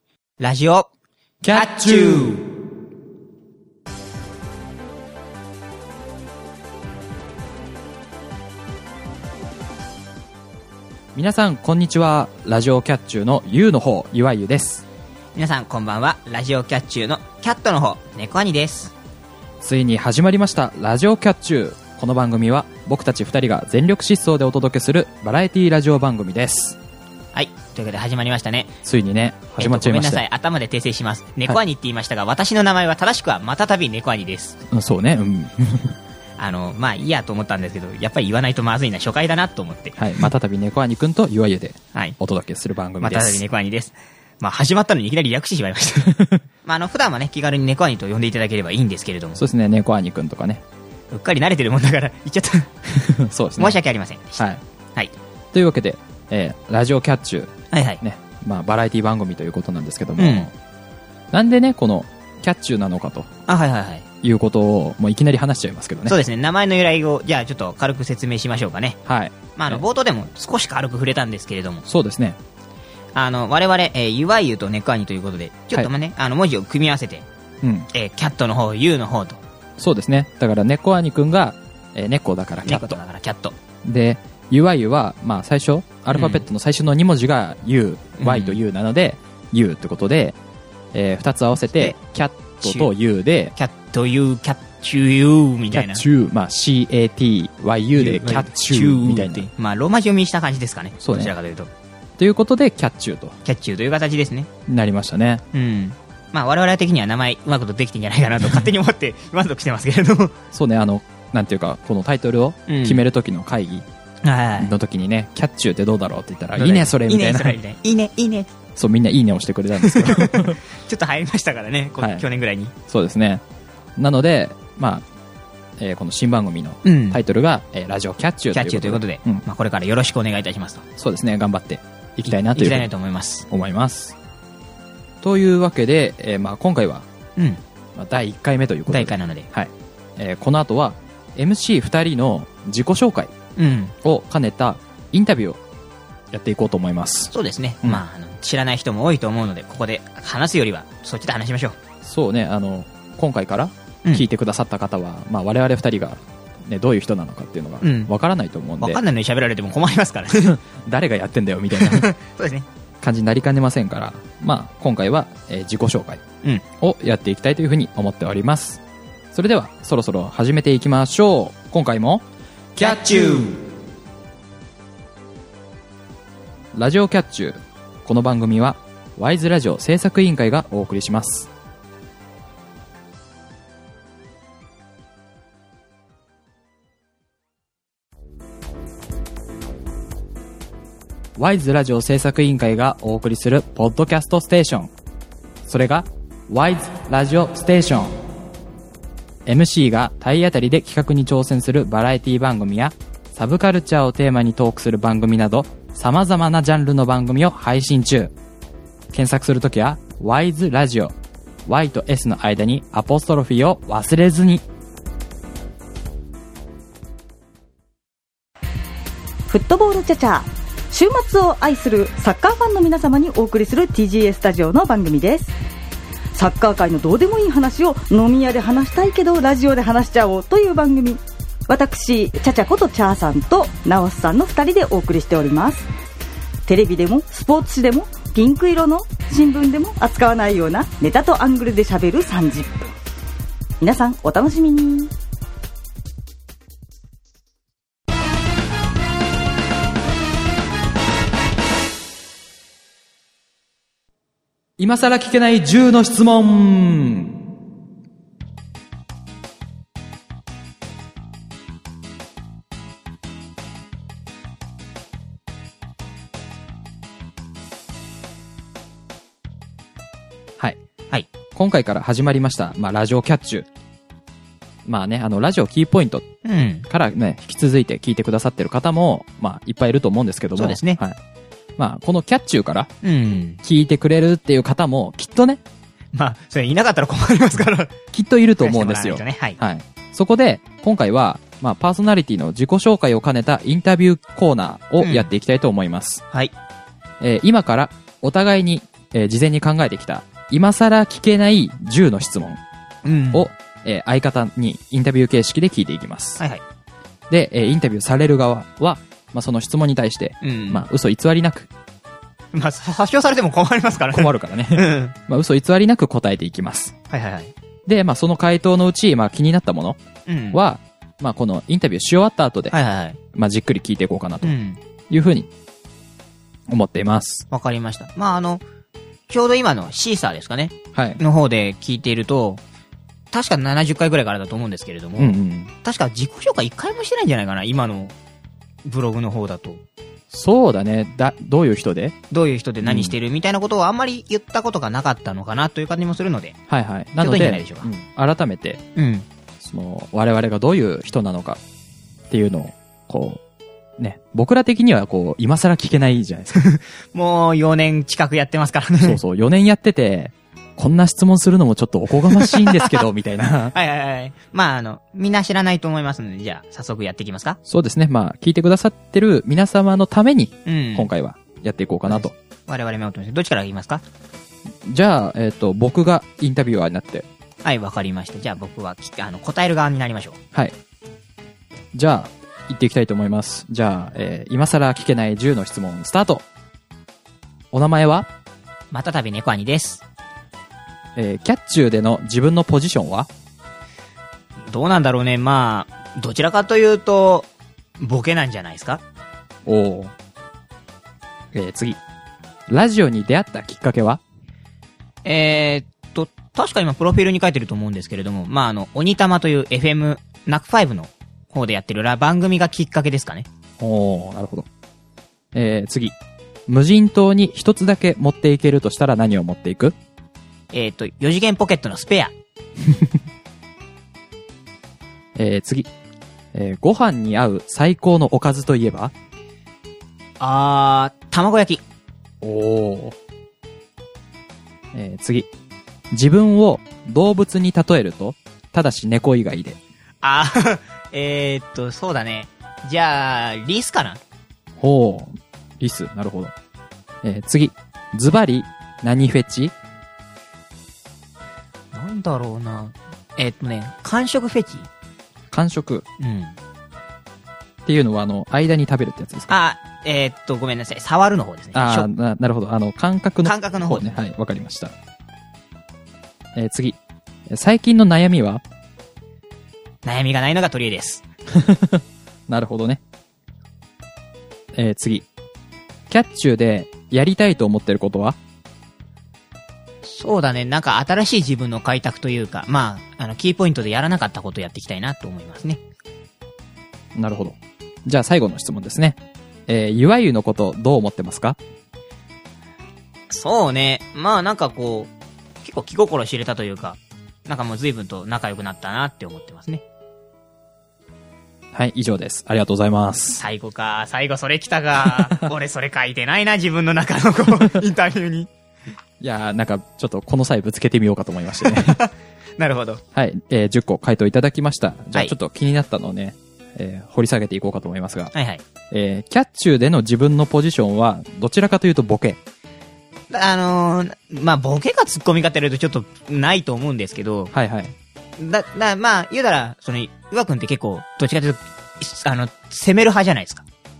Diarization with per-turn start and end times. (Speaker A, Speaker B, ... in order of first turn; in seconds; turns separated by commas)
Speaker A: 0.4-0.9, Speaker B: 1.4-2.3, Speaker A: 1.5-2.5, Speaker B: 11.1-14.8, Speaker A: 15.3-18.9, Speaker B: 19.6-26.8, Speaker A: 27.3-28.7, Speaker B: 28.8-30.2, Speaker A: 29.6-34.6, Speaker B: 34.7-36.0, Speaker A: 36.4-40.3, Speaker B: 40.0-43.4, Speaker A: 43.0-49.4, Speaker B: 46.1-46.4, Speaker B: 49.4-50.6, Speaker A: 51.1-52.7, Speaker B: 52.9-53.8, Speaker A: 53.6-55.1, Speaker B: 55.5-60.5, Speaker A: 57.7-58.0, Speaker A: 60.2-60.5, Speaker B: 61.3-63.3, Speaker A: 63.5-64.0, Speaker B: 64.2-66.2, Speaker A: 66.1-69.0, Speaker B: 69.0-69.8, Speaker A: 69.5-71.8, Speaker B: 71.8-72.4, Speaker A: 73.1-77.2, Speaker B: 77.6-77.9, Speaker A: 77.9-79.4, Speaker B: 79.8-83.0, Speaker A: 82.6-83.5, Speaker B: 83.8-90.4, Speaker A: 86.1-86.5, Speaker A: 88.2-88.6, Speaker B: 90.9-93.5, Speaker A: 92.6-92.9, Speaker A: 93.5-96.0, Speaker B: 95.7-99.5, Speaker A: 98.0-101.7, Speaker B: 101.0-101.3, Speaker B: 102.2-103.3, Speaker A: 103.5-104.5, Speaker B: 104.7-105.4, Speaker A: 105.5-110.3, Speaker B: 110.5-113.8, Speaker A: 112.7-113.0, Speaker A: 114.2-114.7, Speaker B: 114.5-117.6, Speaker A: 116.5-118.5, Speaker B: 118.8-120.6, Speaker A: 119.8-122.7, Speaker B: 122.0-122.2, Speaker B: 122.9-123.4, Speaker B: 124.0-125.0, Speaker B: 125.8-129.4, Speaker A: 126.8-127.2, Speaker A: 128.5-130.8, Speaker B: 131.0-132.9, Speaker A: 132.2-133.5, Speaker B: 133.5-134.1, Speaker B: 135.2-137.1, Speaker B: 137.9-143.3, Speaker A: 138.9-139.5, Speaker A: 143.6-143.9, Speaker B: 144.0-145.6, Speaker B: 146.3-148.0, Speaker A: 147.3-151.8, Speaker B: 152.0-159.0, Speaker A: 157.8-158.1, Speaker A: 158.8-160.6, Speaker B: 160.4-162.1, Speaker A: 161.7-162.7, Speaker B: 163.0-166.2, Speaker B: 166.8-168.8, Speaker B: 169.3-172.2, Speaker A: 172.8-173.6, Speaker B: 172.8-173.4, Speaker B: 176.7-181.5, Speaker B: 191.4-194.9, Speaker B: 195.7-198.2, Speaker B: 199.4-208.3, Speaker B: 209.1-211.1, Speaker B: 211.7-214.6, Speaker C: 219.5-225.5, Speaker C: 226.3-235.9, Speaker C: 236.7-242.9, Speaker C: 243.8-245.1, Speaker B: 254.8-257.4, Speaker B: 271.5-273.6, Speaker B: 274.9-276.3, Speaker A: 276.4-276.9, Speaker B: 276.9-281.2, Speaker A: 280.6-281.0, Speaker B: 281.8-282.9, Speaker A: 283.0-283.6, Speaker B: 283.6-285.6, Speaker A: 286.1-287.9, Speaker B: 288.1-296.2, Speaker A: 288.6-289.6, Speaker A: 295.0-295.3, Speaker B: 297.2-302.6, Speaker A: 303.0-303.5, Speaker B: 303.3-306.4, Speaker B: 307.3-311.7, Speaker A: 310.4-310.9, Speaker A: 312.5-315.1, Speaker B: 314.1-316.9, Speaker A: 317.1-317.5, Speaker B: 317.9-320.0, Speaker A: 320.2-320.6, Speaker B: 320.5-322.8, Speaker A: 322.7-323.2, Speaker B: 323.3-324.5, Speaker A: 324.4-324.8, Speaker B: 325.1-325.5, Speaker B: 326.7-327.4, Speaker A: 327.5-328.6, Speaker A: 329.3-332.6, Speaker B: 330.9-331.2, Speaker A: 333.3-338.1, Speaker B: 335.2-335.7, Speaker A: 338.8-339.8, Speaker B: 340.3-342.1, Speaker A: 342.3-346.6, Speaker B: 342.8-343.1, Speaker B: 346.7-348.8, Speaker A: 347.2-347.9, Speaker A: 348.9-349.2, Speaker B: 349.6-351.6, Speaker B: 352.3-353.4, Speaker B: 354.0-356.7, Speaker A: 356.5-359.2, Speaker B: 359.0-363.7, Speaker A: 362.3-362.9, Speaker A: 363.7-367.6, Speaker B: 367.6-372.3, Speaker A: 370.6-371.1, Speaker A: 372.1-374.0, Speaker B: 374.8-377.2, Speaker A: 377.6-380.4, Speaker B: 381.9-386.4, Speaker B: 387.7-388.3, Speaker A: 388.9-390.0, Speaker B: 391.1-393.3, Speaker A: 394.6-399.0, Speaker B: 399.6-400.1, Speaker B: 401.5-402.0, Speaker B: 402.7-404.2, Speaker A: 405.2-413.5, Speaker B: 413.8-414.7, Speaker B: 415.5-416.1, Speaker B: 416.7-419.9, Speaker A: 420.7-422.3, Speaker B: 425.4-425.9, Speaker B: 426.5-429.1, Speaker A: 430.4-431.8, Speaker B: 432.4-433.1, Speaker B: 434.9-435.5, Speaker B: 436.1-439.8, Speaker A: 440.2-444.2, Speaker B: 444.8-446.5, Speaker B: 447.2-449.7, Speaker A: 451.9-454.9, Speaker B: 455.5-456.0, Speaker A: 456.2-456.6, Speaker B: 457.9-459.5, Speaker A: 459.5-462.1, Speaker B: 461.7-464.9, Speaker A: 463.4-464.2, Speaker B: 466.5-467.0, Speaker B: 467.5-468.6, Speaker A: 470.0-471.2, Speaker B: 471.5-473.0, Speaker B: 474.7-475.2, Speaker B: 476.1-478.4, Speaker A: 480.0-485.8, Speaker B: 487.1-491.6, Speaker A: 493.3-495.1, Speaker A: 495.6-499.8, Speaker B: 501.7-503.4, Speaker A: 503.4-508.5, Speaker B: 505.0-505.5, Speaker B: 509.2-512.0, Speaker A: 511.6-513.0, Speaker B: 513.1-518.3, Speaker A: 518.3-518.6, Speaker B: 518.9-522.4, Speaker A: 523.3-527.5, Speaker B: 527.5-527.9, Speaker A: 528.4-533.6